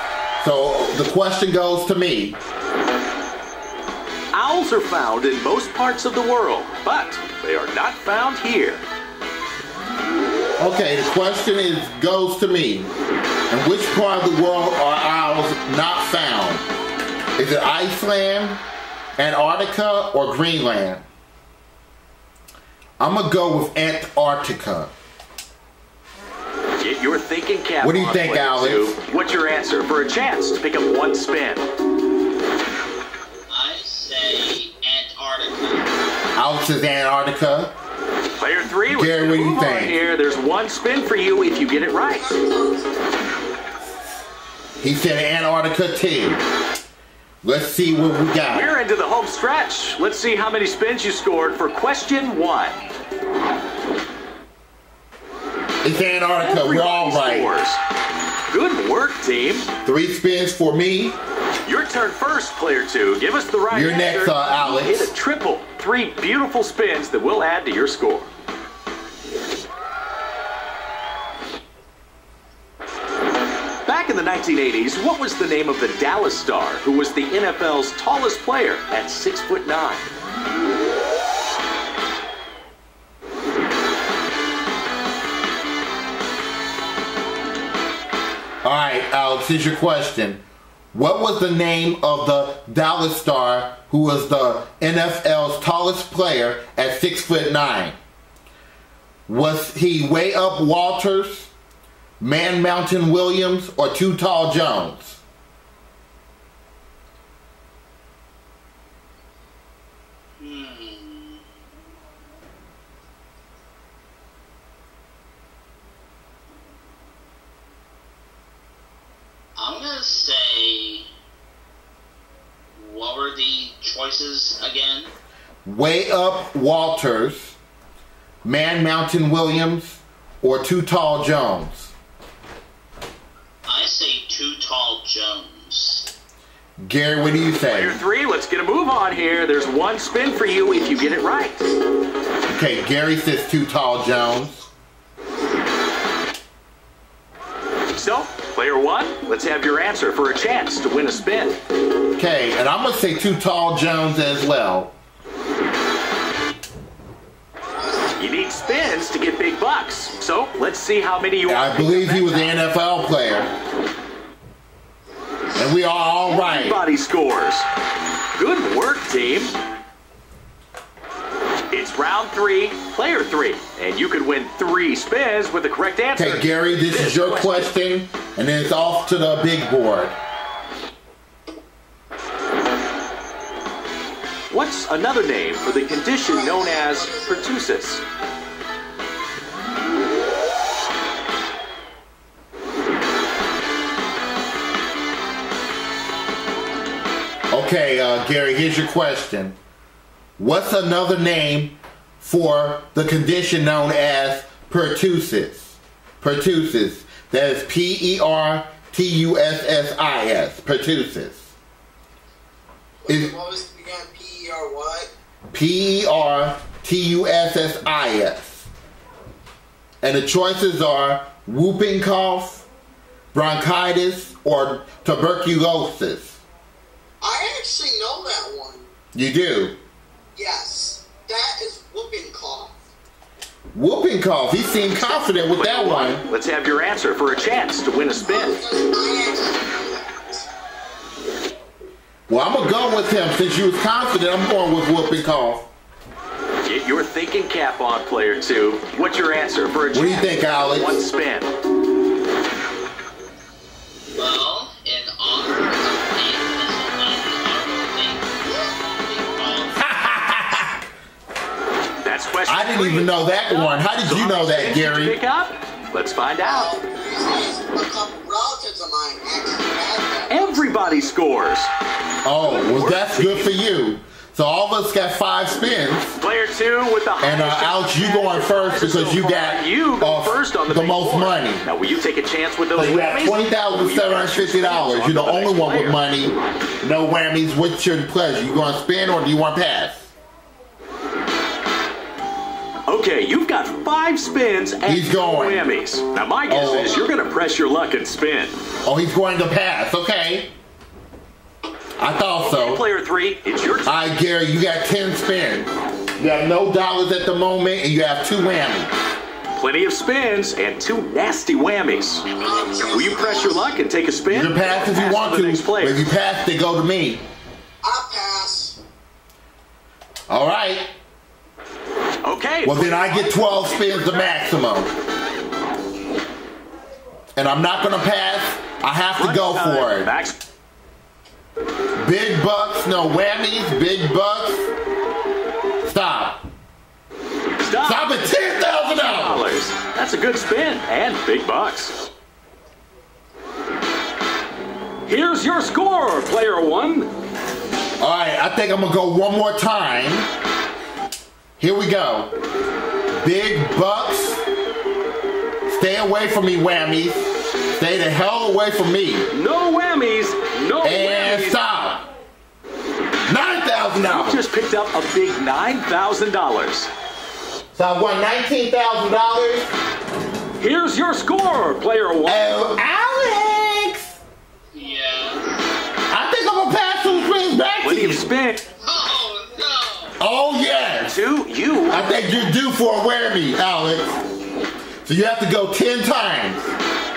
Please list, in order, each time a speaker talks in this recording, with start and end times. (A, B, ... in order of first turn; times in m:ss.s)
0:00.4-0:02.4 A
0:04.3-0:08.8 B
0:10.6-0:12.9 A
0:13.5-0:16.7 A
0:17.4-0:18.6 A
0:19.2-0:21.0 A
0:23.0-0:24.9 A
0:26.8-0:31.7 B
0:27.8-0:28.9 A
0:33.5-0:35.9 C
0:36.4-0:37.7 A
0:38.4-0:42.3 B
0:38.9-0:40.0 A
0:42.0-0:43.2 D
0:44.8-0:46.4 A
0:47.4-0:48.8 A
0:48.5-0:52.8 B
0:55.8-0:57.5 A
0:56.4-0:57.8 B
0:58.5-0:59.7 B
0:59.8-1:01.2 A
1:01.6-1:08.3 B
1:03.7-1:05.1 A
1:13.9-1:20.0 B
1:28.6-1:30.4 A
1:30.9-1:38.0 A
1:39.3-1:41.5 A
1:42.2-1:45.2 A
1:50.4-1:51.4 C
1:59.6-2:01.1 C
2:02.8-2:05.1 C
2:05.6-2:07.6 A
2:08.4-2:11.9 A
2:13.7-2:16.1 C
2:16.8-2:18.0 A
2:17.7-2:21.7 B
2:22.5-2:24.6 A
2:27.9-2:31.6 B
2:32.2-2:34.9 A
2:37.7-2:39.1 D
2:38.2-2:42.6 B
2:41.5-2:43.5 A
2:45.6-2:46.8 A
2:46.3-2:47.7 B
2:48.4-2:49.5 B
2:51.7-2:57.7 B
2:56.2-3:00.2 A
3:04.5-3:08.0 B
3:05.8-3:07.5 D
3:17.5-3:19.6 A
3:20.4-3:31.5 A
3:33.0-3:35.1 D
3:33.1-3:33.3 A
3:35.5-3:38.7 A
3:40.0-3:42.6 A
3:43.3-3:46.4 A
3:47.2-3:48.9 D
3:49.1-3:49.8 A
3:50.4-3:52.7 D
3:53.7-3:56.2 A
3:54.9-3:58.6 B
3:58.2-4:00.5 D
4:02.3-4:05.7 A
4:06.6-4:11.5 B
4:09.9-4:11.0 A
4:14.2-4:19.8 C
4:19.8-4:20.8 A
4:22.0-4:26.7 B
4:22.5-4:25.2 A
4:26.4-4:31.1 D
4:30.3-4:31.7 B
4:32.2-4:36.2 A
4:32.4-4:33.5 B
4:36.2-4:46.0 B
4:37.2-4:41.7 A
4:42.8-4:50.1 A
4:52.9-4:58.5 B
4:54.8-4:55.7 A
4:56.5-4:57.1 A
4:58.8-5:00.5 A
5:02.0-5:02.8 A
5:02.4-5:04.1 B
5:03.9-5:08.9 A
5:09.5-5:12.3 B
5:12.4-5:13.8 D
5:12.9-5:16.0 B
5:14.3-5:17.2 A
5:17.8-5:18.8 D
5:20.3-5:20.9 A
5:22.2-5:24.4 B
5:22.6-5:24.9 A
5:27.4-5:30.1 A
5:29.2-5:30.4 B
5:32.0-5:34.7 A
5:35.8-5:36.5 A
5:37.6-5:41.9 B
5:37.8-5:39.5 A
5:45.1-5:47.1 B
5:48.0-5:50.3 A
5:51.6-5:52.3 A
5:53.1-5:54.4 A
5:55.7-5:59.3 A
5:59.3-6:01.6 B
6:00.8-6:02.1 A
6:03.3-6:04.4 A
6:04.0-6:06.9 B
6:07.7-6:09.7 A
6:10.6-6:12.7 B
6:12.2-6:14.2 A
6:14.7-6:15.7 C
6:16.1-6:18.3 A
6:17.8-6:18.6 B
6:18.8-6:20.2 C
6:20.2-6:21.2 A
6:21.0-6:22.1 B
6:21.9-6:24.2 A
6:25.0-6:26.7 A